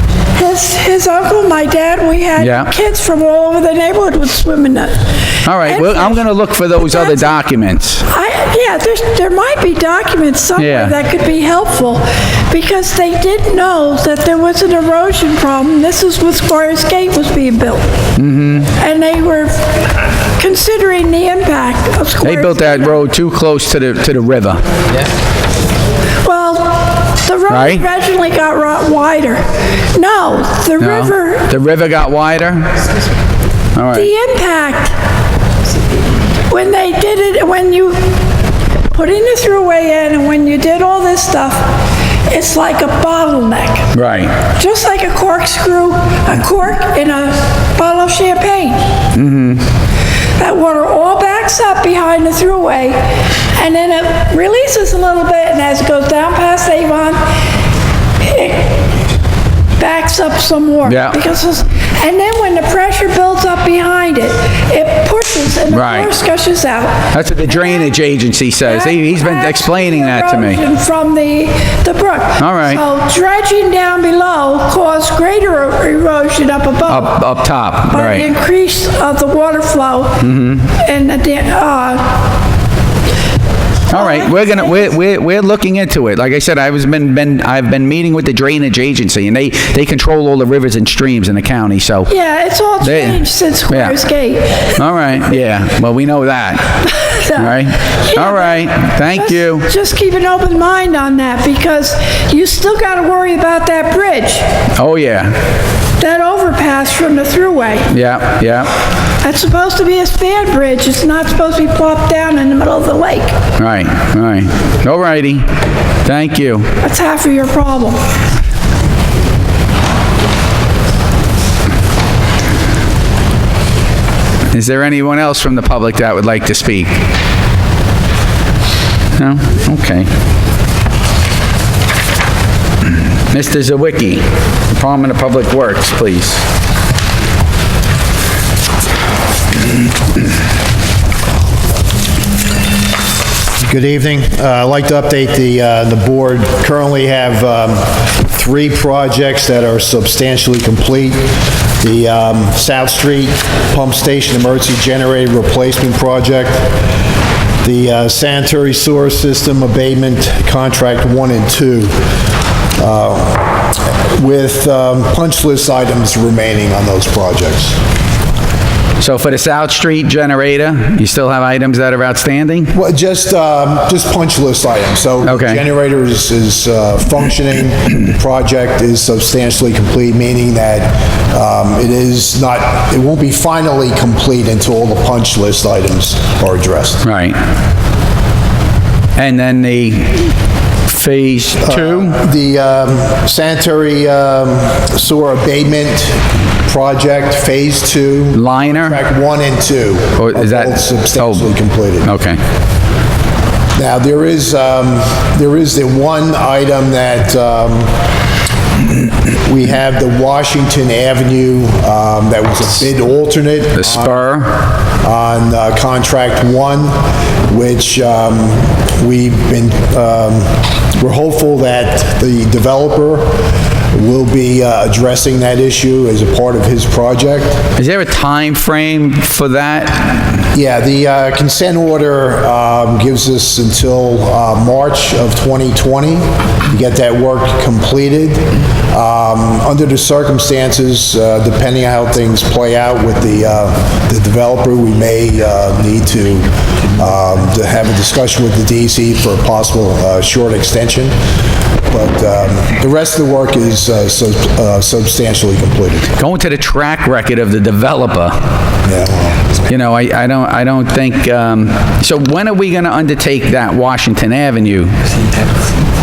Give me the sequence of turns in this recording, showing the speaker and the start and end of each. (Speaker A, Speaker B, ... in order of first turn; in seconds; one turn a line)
Speaker A: 0.3-6.2
Speaker B: 2.4-2.7
Speaker B: 5.4-8.0
Speaker A: 6.8-7.4
Speaker A: 8.1-17.8
Speaker B: 10.6-10.9
Speaker B: 18.1-18.7
Speaker A: 18.7-19.7
Speaker A: 20.4-23.0
Speaker B: 22.2-24.6
Speaker A: 26.2-29.4
Speaker B: 27.5-27.8
Speaker A: 29.9-31.5
Speaker B: 30.8-32.7
Speaker B: 33.7-34.1
Speaker A: 33.9-35.0
Speaker A: 36.5-38.2
Speaker A: 38.9-41.7
Speaker A: 42.3-43.9
Speaker B: 43.9-44.3
Speaker A: 44.4-48.8
Speaker B: 49.1-49.6
Speaker A: 50.4-57.2
Speaker A: 58.2-58.9
Speaker A: 59.8-67.9
Speaker B: 60.8-61.2
Speaker B: 65.7-66.1
Speaker B: 67.1-70.6
Speaker A: 68.6-77.2
Speaker B: 72.4-72.8
Speaker B: 76.9-78.3
Speaker A: 77.9-82.3
Speaker B: 80.2-80.7
Speaker B: 83.9-92.1
Speaker A: 83.9-84.9
Speaker A: 92.1-94.8
Speaker B: 92.8-94.0
Speaker B: 94.7-96.8
Speaker A: 96.8-104.5
Speaker B: 97.3-99.7
Speaker B: 104.8-105.4
Speaker A: 106.0-107.9
Speaker B: 107.9-108.7
Speaker A: 109.2-113.4
Speaker B: 113.6-115.5
Speaker B: 116.0-116.7
Speaker A: 116.8-118.0
Speaker B: 124.5-126.9
Speaker B: 129.2-130.1
Speaker B: 133.3-136.4
Speaker C: 143.6-156.7
Speaker C: 157.6-161.9
Speaker C: 162.8-163.6
Speaker C: 164.1-167.8
Speaker B: 169.0-172.7
Speaker C: 172.7-187.1
Speaker B: 175.2-175.6
Speaker B: 187.0-187.4
Speaker B: 189.2-190.3
Speaker B: 190.9-192.2
Speaker C: 191.6-202.1
Speaker B: 198.3-199.0
Speaker B: 200.2-201.5
Speaker B: 202.0-202.4
Speaker C: 203.8-207.9
Speaker C: 209.4-214.3
Speaker B: 213.8-214.5
Speaker C: 214.9-223.4
Speaker C: 223.9-227.6
Speaker B: 227.8-230.5
Speaker C: 230.5-251.1
Speaker C: 251.9-256.1
Speaker B: 256.2-258.4
Speaker C: 258.8-259.5
Speaker B: 259.7-264.9